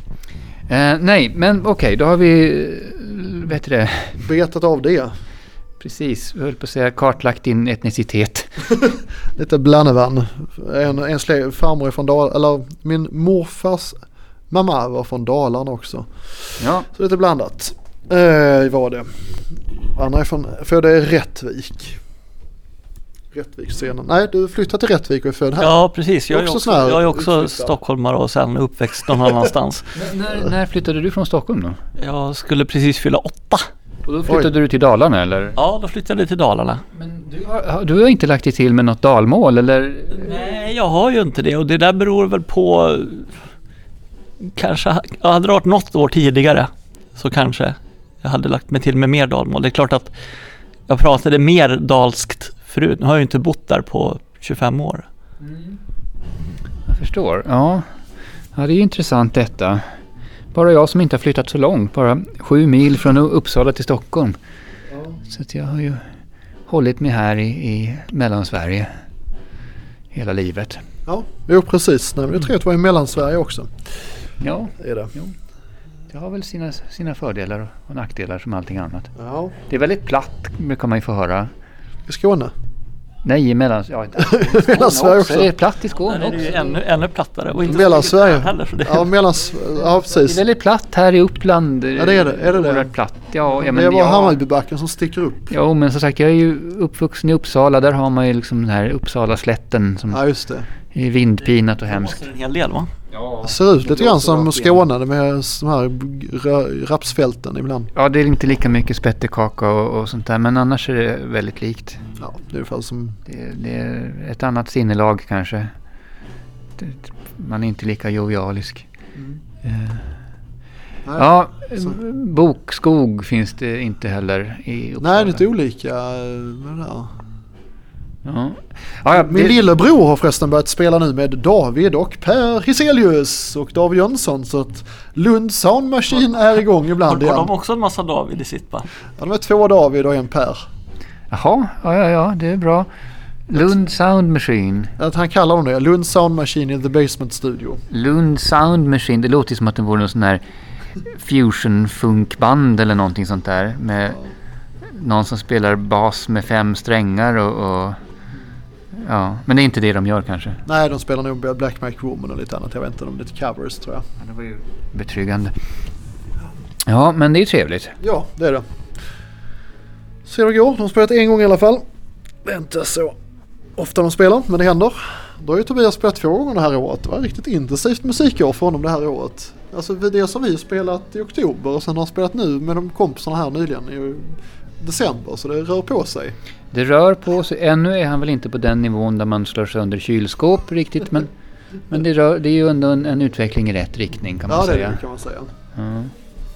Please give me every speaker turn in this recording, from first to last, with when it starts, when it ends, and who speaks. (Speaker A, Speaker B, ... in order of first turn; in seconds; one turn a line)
Speaker A: 0.7-4.2
Speaker B: 4.2-5.1
Speaker A: 5.8-8.5
Speaker B: 8.8-13.9
Speaker B: 14.5-16.1
Speaker A: 16.6-16.9
Speaker B: 16.9-19.1
Speaker B: 19.9-22.0
Speaker B: 23.3-25.8
Speaker C: 25.6-29.9
Speaker B: 26.3-27.8
Speaker A: 29.9-31.8
Speaker C: 32.0-33.7
Speaker A: 34.0-35.6
Speaker C: 35.6-36.8
Speaker A: 36.9-40.4
Speaker C: 40.1-43.3
Speaker C: 44.4-50.1
Speaker C: 50.9-55.0
Speaker A: 55.4-55.8
Speaker A: 56.9-57.8
Speaker A: 58.5-59.8
Speaker A: 60.5-64.4
Speaker B: 64.9-65.2
Speaker A: 65.2-66.0
Speaker A: 66.7-68.9
Speaker A: 70.1-70.8
Speaker B: 71.0-73.7
Speaker A: 74.4-75.3
Speaker B: 74.8-75.1
Speaker A: 76.1-79.1
Speaker B: 79.2-79.5
Speaker A: 79.7-81.5
Speaker B: 82.1-82.5
Speaker A: 83.2-86.8
Speaker B: 84.2-85.5
Speaker C: 86.0-89.1
Speaker B: 87.7-90.4
Speaker A: 90.1-94.4
Speaker B: 92.0-92.9
Speaker B: 93.5-95.5
Speaker A: 95.5-100.2
Speaker B: 100.1-100.7
Speaker A: 100.9-102.2
Speaker C: 101.7-102.9
Speaker A: 103.1-104.9
Speaker B: 103.4-107.9
Speaker A: 107.9-112.0
Speaker B: 112.2-113.2
Speaker A: 113.3-115.7
Speaker A: 116.8-118.8
Speaker A: 119.6-120.0
Speaker A: 121.2-125.5
Speaker B: 125.0-127.1
Speaker A: 128.2-129.6
Speaker B: 129.1-137.5
Speaker C: 137.0-138.9
Speaker B: 139.2-140.6
Speaker A: 141.3-142.9
Speaker A: 143.5-144.9
Speaker B: 145.0-147.8
Speaker A: 147.9-150.4
Speaker A: 151.1-154.2
Speaker A: 154.8-158.0
Speaker A: 158.9-160.6
Speaker B: 160.7-164.0
Speaker A: 164.2-165.5
Speaker A: 166.8-167.9
Speaker B: 168.0-168.6
Speaker B: 170.2-171.8
Speaker B: 172.4-173.1
Speaker B: 173.8-186.3
Speaker A: 186.7-191.3
Speaker A: 191.9-195.0
Speaker B: 194.5-195.5
Speaker A: 195.7-196.1